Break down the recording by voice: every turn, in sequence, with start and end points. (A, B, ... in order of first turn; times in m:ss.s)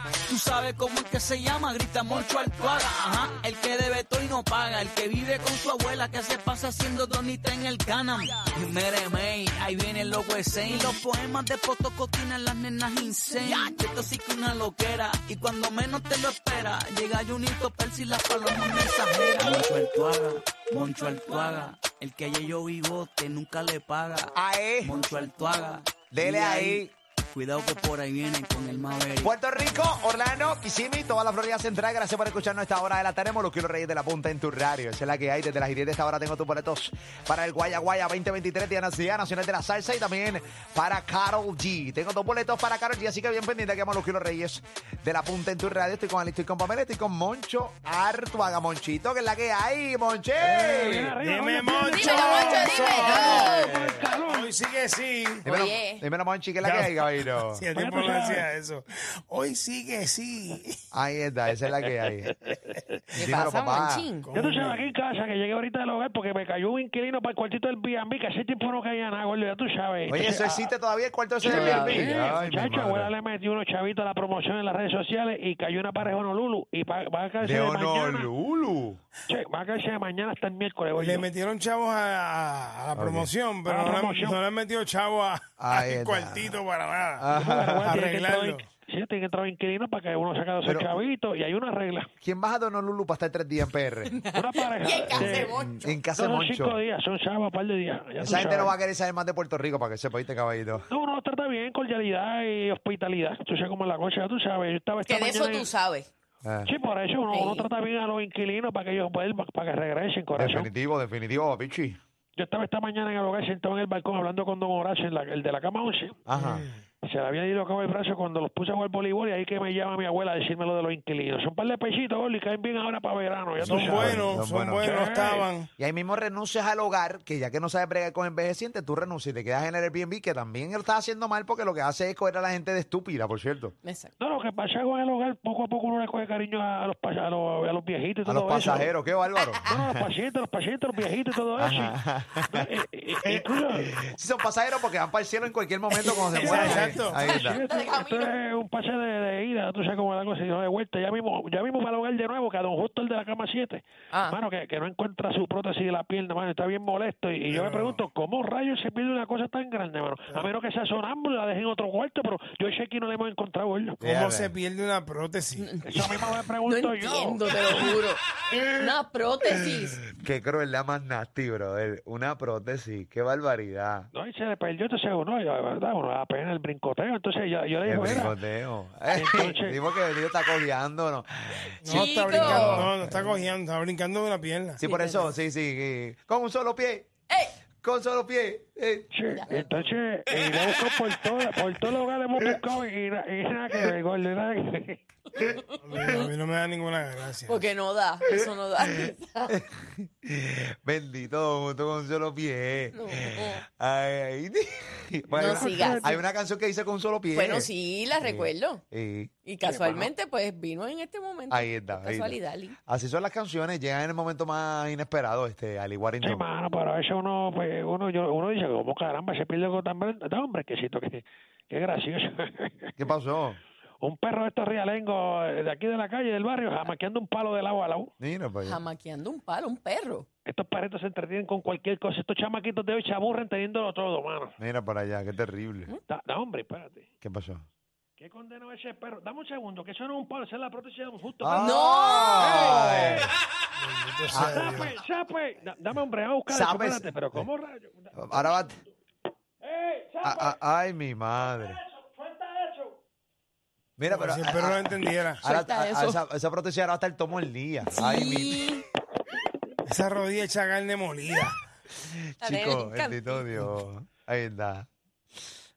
0:00.3-0:29.4 A
0:24.4-0:25.0 B
0:26.1-0:26.9 B
0:29.2-0:51.1 B
0:50.4-0:55.4 C
0:50.7-0:54.5 D
0:51.9-0:53.8 E
0:55.4-0:56.0 E
0:55.5-0:57.6 B
0:56.6-1:00.8 C
0:57.8-0:58.5 D
1:00.9-1:02.4 B
1:01.8-1:02.8 D
1:03.2-1:04.1 B
1:03.2-1:04.3 E
1:04.2-1:04.9 C
1:04.4-1:10.7 D
1:10.1-1:13.1 B
1:11.4-1:18.3 D
1:11.4-1:12.4 E
1:17.4-1:19.0 B
1:19.3-1:21.3 D
1:21.0-1:27.3 C
1:23.0-1:23.3 B
1:23.7-1:24.4 D
1:25.6-1:26.6 B
1:27.2-1:28.0 B
1:27.3-1:32.1 D
1:27.8-1:28.7 C
1:30.6-1:31.0 B
1:32.2-1:34.2 B
1:34.1-1:35.9 E
1:34.3-1:35.5 D
1:35.0-1:36.8 B
1:36.1-1:38.8 D
1:38.2-1:40.9 B
1:40.9-1:45.7 D
1:45.0-1:46.1 E
1:46.4-1:46.7 B
1:46.6-1:50.7 D
1:47.3-1:47.7 E
1:50.4-1:52.0 B
1:52.4-1:56.2 D
1:56.3-1:56.7 B
1:56.4-1:56.8 C
1:57.1-2:05.5 D
2:03.6-2:05.0 B
2:03.6-2:05.7 C
2:05.8-2:13.8 B
2:13.8-2:14.1 E
2:14.2-2:18.9 D
2:18.2-2:20.0 B
2:19.4-2:19.8 E
2:19.7-2:24.0 D
2:21.6-2:22.7 B
2:24.0-2:27.6 B
2:26.1-2:28.3 E
2:26.4-2:27.2 C
2:26.4-2:44.0 D
2:34.1-2:34.4 E
2:37.5-2:38.0 C
2:44.0-2:44.5 B
2:44.0-2:45.7 C
2:45.6-2:46.1 E
2:45.8-2:48.0 D
2:46.6-2:50.0 E
2:50.2-2:54.1 B
2:54.1-2:58.4 D
2:57.8-3:03.5 B
2:59.1-2:59.8 D
3:01.8-3:04.8 C
3:01.8-3:02.9 E
3:04.8-3:07.1 B
3:04.8-3:05.3 E
3:07.3-3:07.6 E
3:07.8-3:09.9 B
3:09.1-3:15.0 D
3:15.3-3:16.3 E
3:15.9-3:17.6 C
3:17.5-3:19.6 E
3:19.5-3:29.3 B
3:22.9-3:23.6 E
3:25.3-3:26.2 D
3:25.4-3:26.1 E
3:27.3-3:28.8 E
3:29.4-3:32.8 E
3:29.6-3:30.1 D
3:31.5-3:36.5 B
3:36.2-3:42.9 D
3:43.0-3:43.6 B
3:44.0-3:48.1 D
3:48.2-3:48.8 B
3:48.6-3:50.3 E
3:50.5-3:54.6 D
3:54.6-3:55.9 B
3:56.1-3:57.1 D
3:57.2-3:57.7 B
3:58.2-4:01.7 D
4:01.4-4:03.3 B
4:01.6-4:03.0 E
4:02.3-4:03.3 D
4:03.8-4:05.0 C
4:04.3-4:05.0 B
4:04.3-4:08.9 D
4:06.5-4:07.5 B
4:08.2-4:08.8 B
4:09.6-4:10.6 D
4:10.2-4:11.8 B
4:11.4-4:13.0 D
4:14.0-4:18.7 B
4:14.1-4:15.4 C
4:15.4-4:16.2 E
4:17.9-4:18.8 E
4:19.9-4:21.6 C
4:22.4-4:24.9 B
4:22.4-4:23.5 E